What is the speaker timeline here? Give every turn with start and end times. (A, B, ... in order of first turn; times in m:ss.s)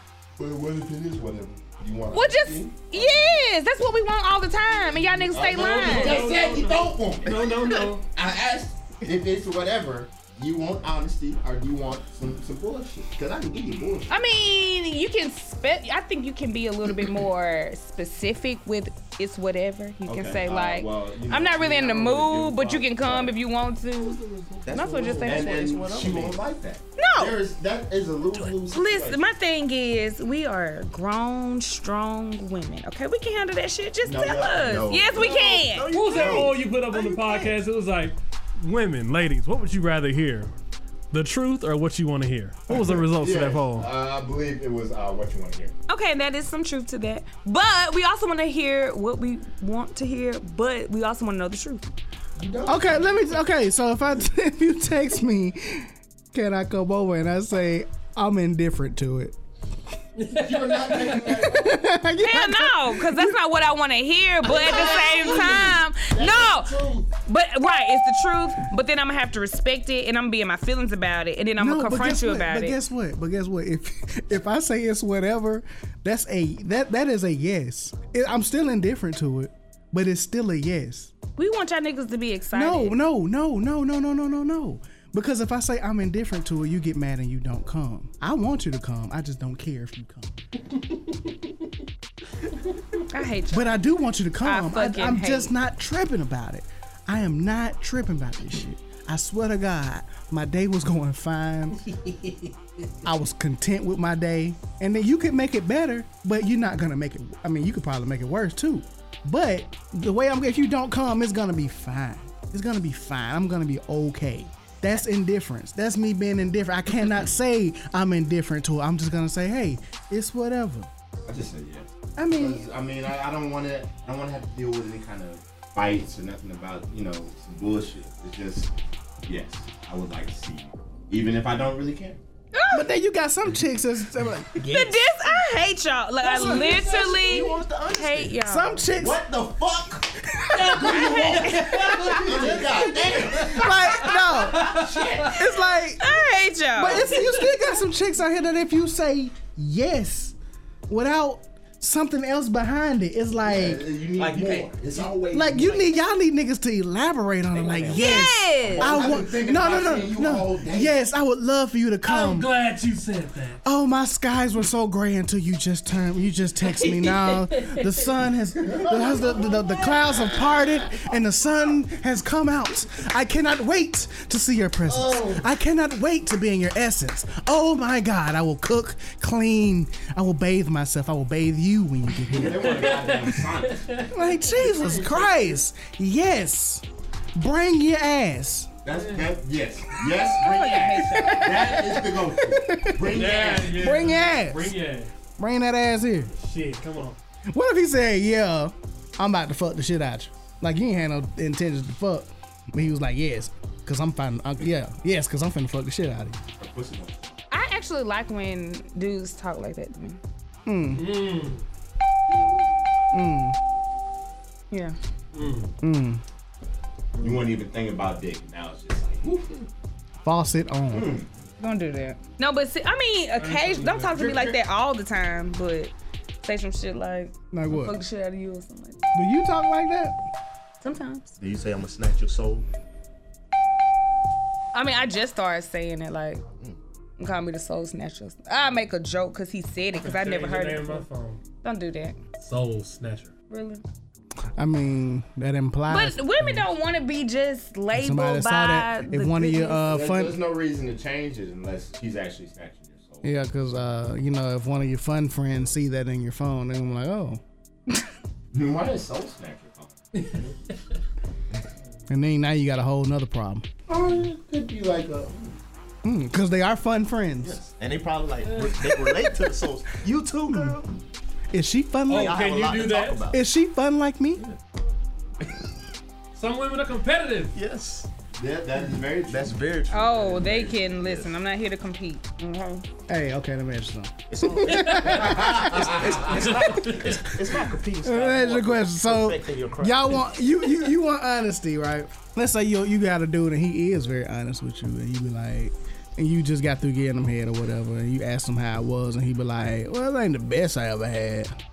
0:00.4-0:03.3 A
0:02.1-0:06.3 B
0:05.0-0:14.2 A
0:05.4-0:08.0 C
0:14.1-0:24.2 B
0:20.0-0:23.4 A
0:24.0-0:26.4 D
0:24.7-0:25.6 B
0:25.2-0:29.2 A
0:27.0-0:27.4 B
0:28.4-0:35.9 B
0:34.0-0:35.4 A
0:34.9-0:37.6 D
0:35.9-0:40.5 C
0:36.1-0:36.6 A
0:41.1-0:43.9 C
0:42.7-0:45.7 A
0:45.9-0:51.9 B
0:52.4-0:53.2 A
0:52.6-0:59.4 E
1:00.2-1:01.2 C
1:00.3-1:01.8 A
1:01.3-1:03.3 E
1:02.2-1:12.8 B
1:04.4-1:07.1 A
1:11.6-1:21.1 E
1:21.4-1:23.0 B
1:22.5-1:30.3 E
1:33.1-1:33.8 B
1:33.5-1:41.8 E
1:34.4-1:35.5 B
1:43.0-2:00.9 E
2:01.2-2:08.7 A
2:02.2-2:02.7 E
2:09.2-2:12.2 A
2:12.5-2:12.8 B
2:12.7-2:15.0 E
2:14.6-2:18.8 B
2:16.2-2:16.9 E
2:16.3-2:18.4 D
2:18.4-2:19.2 E
2:18.9-2:20.1 D
2:20.5-2:21.0 E
2:20.6-2:22.3 B
2:20.7-2:25.3 A
2:20.9-2:25.3 D
2:23.5-2:26.0 E
2:26.0-2:27.5 B
2:26.8-2:30.3 E
2:30.9-2:33.8 E
2:33.4-2:35.9 A
2:34.2-2:34.6 D
2:35.3-2:42.5 E
2:37.5-2:41.0 A
2:37.9-2:39.0 B
2:42.0-2:43.6 C
2:43.6-3:03.0 E
2:46.9-2:47.6 C
2:48.6-2:51.1 A
2:54.9-2:55.5 A
3:02.3-3:05.5 A
3:02.4-3:04.1 C
3:04.1-3:06.8 E
3:07.4-3:08.7 E
3:08.8-3:13.9 A
3:08.9-3:09.3 C
3:10.4-3:11.8 B
3:11.1-3:14.7 E
3:13.1-3:15.1 C
3:15.4-3:16.3 E
3:16.3-3:17.2 C
3:17.5-3:26.4 E
3:26.6-3:27.4 A
3:27.5-3:30.2 B
3:30.6-3:31.0 E
3:30.9-3:31.6 C
3:33.1-3:33.6 E
3:34.7-3:35.0 B
3:35.3-3:35.7 C
3:35.8-3:36.2 E
3:37.2-3:39.7 A
3:40.2-3:41.1 E
3:40.9-3:41.2 A
3:41.6-3:49.0 B
3:43.4-3:44.2 C
3:44.1-3:44.6 A
3:47.5-3:48.0 E
3:49.1-3:50.2 E
3:50.8-3:51.3 B
3:51.4-3:52.6 D
3:54.7-3:56.4 B
3:57.2-4:01.0 B
4:00.0-4:01.4 C
4:01.6-4:02.2 B
4:02.4-4:03.3 C
4:03.5-4:03.8 B
4:04.6-4:06.6 E
4:05.9-4:09.8 B
4:07.9-4:10.4 E
4:09.7-4:13.4 A
4:13.2-4:17.4 E
4:18.5-4:20.5 A
4:22.1-4:23.6 E
4:23.9-4:25.6 A
4:26.0-4:27.6 E
4:27.4-4:30.9 D
4:28.5-4:28.8 C
4:31.5-4:32.4 E
4:32.1-4:33.2 C
4:32.1-4:33.4 D
4:33.3-4:34.4 E
4:36.3-4:37.5 C
4:37.5-4:38.1 D
4:38.4-4:39.6 A
4:39.2-4:41.3 D
4:39.9-4:42.8 B
4:43.1-4:45.8 E
4:44.3-4:50.6 D
4:44.7-4:45.0 C
4:45.2-4:46.3 A
4:46.3-4:47.2 C
4:48.0-5:01.5 E